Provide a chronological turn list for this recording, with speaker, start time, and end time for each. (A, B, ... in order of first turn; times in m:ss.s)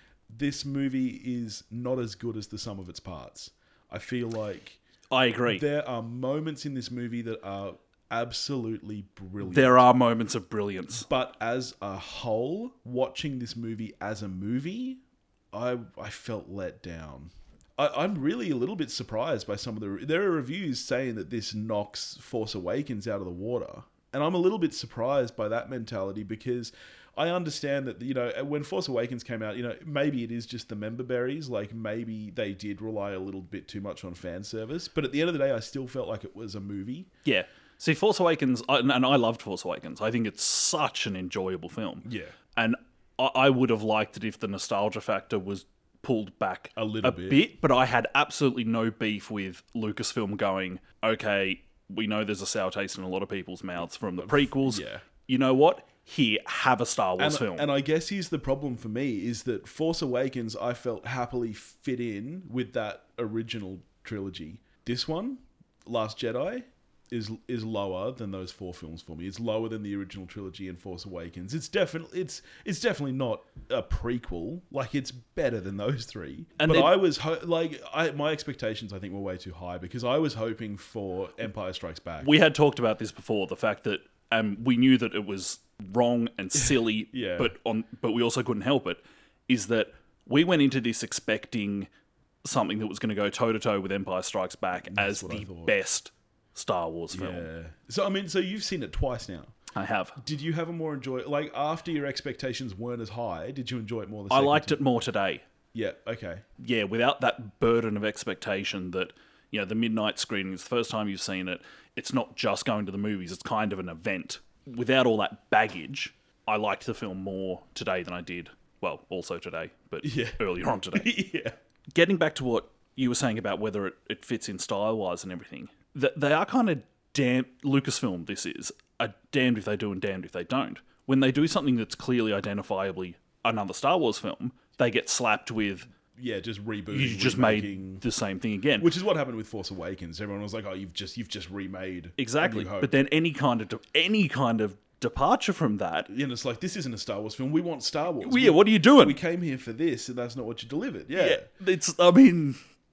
0:00.3-0:04.8 A
0:05.1-0:05.6 B
0:05.5-0:09.8 A
0:09.4-0:11.1 B
0:11.0-0:15.0 A
0:15.5-0:37.1 A
0:37.2-0:57.7 B
0:42.0-0:42.3 A
0:46.8-0:47.4 A
0:54.2-0:55.0 A
0:57.2-1:22.3 A
1:16.6-1:16.9 B
1:22.2-1:31.9 B
1:26.6-1:27.6 A
1:32.4-1:37.5 B
1:34.8-1:35.7 A
1:37.1-1:39.6 A
1:39.7-1:40.2 B
1:40.2-1:44.8 A
1:44.3-1:45.4 B
1:45.7-1:46.4 A
1:46.6-2:01.1 B
2:00.0-2:01.5 A
2:01.9-2:15.9 B
2:16.1-2:18.0 A
2:16.9-2:18.9 B
2:18.8-2:22.9 A
2:22.2-2:26.1 B
2:26.1-2:31.5 A
2:28.2-2:29.2 B
2:31.1-2:32.6 B